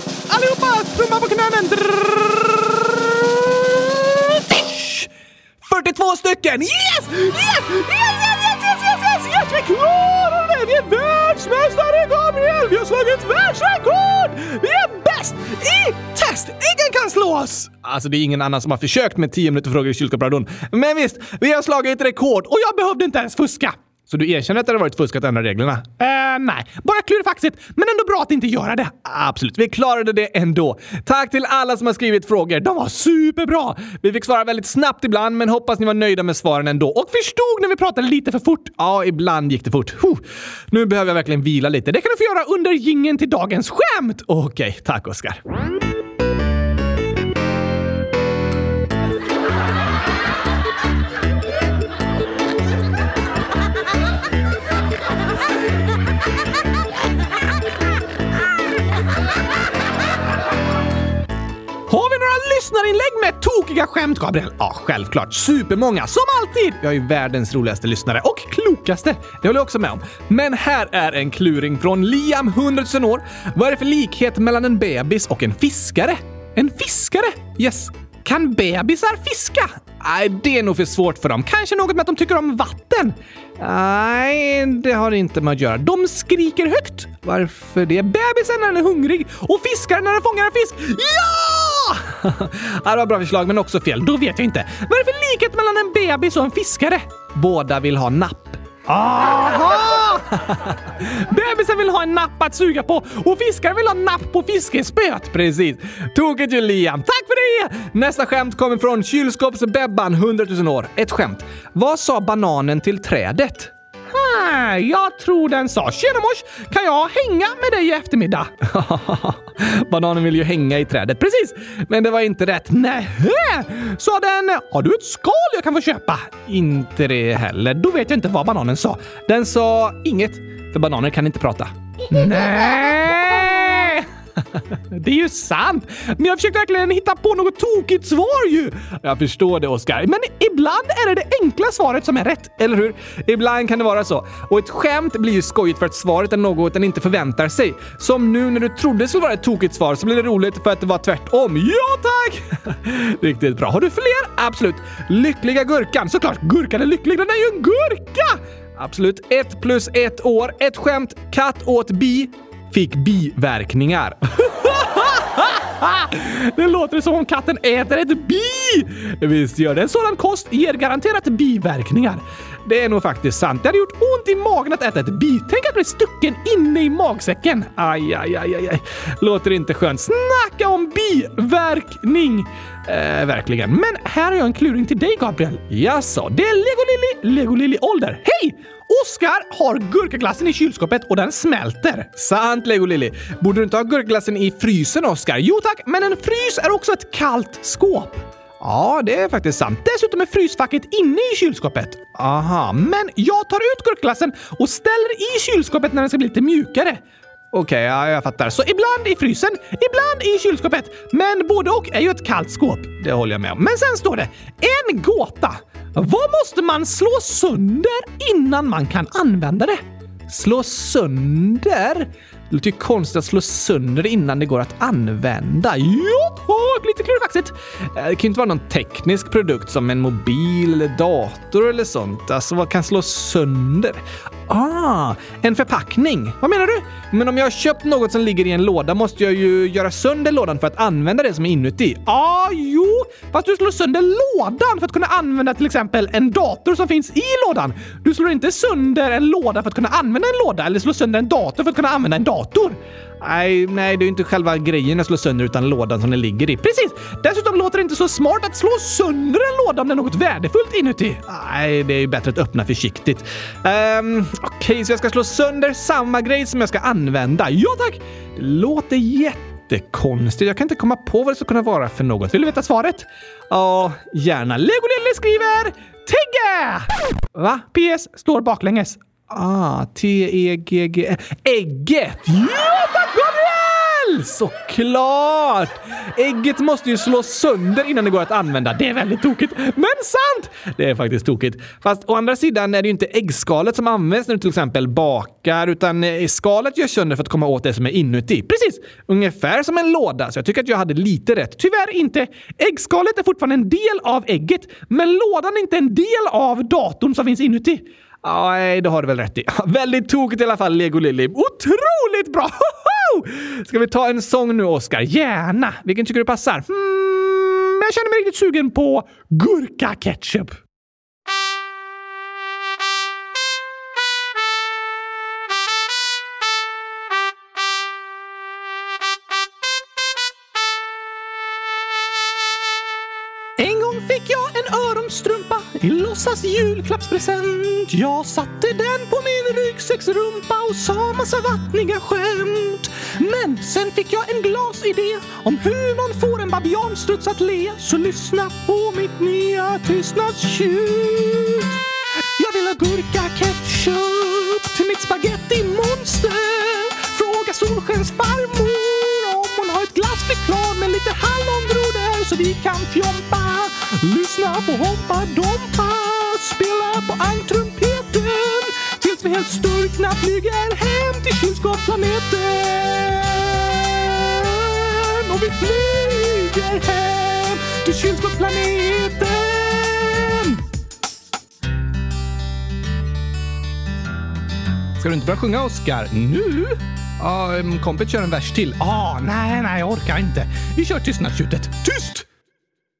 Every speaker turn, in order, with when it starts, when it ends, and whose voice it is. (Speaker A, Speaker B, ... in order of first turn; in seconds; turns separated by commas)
Speaker A: 0.3-5.1, Speaker A: 5.6-45.4, Speaker A: 61.9-320.6, Speaker A: 333.6-351.8, Speaker A: 352.4-380.6, Speaker A: 385.0-392.3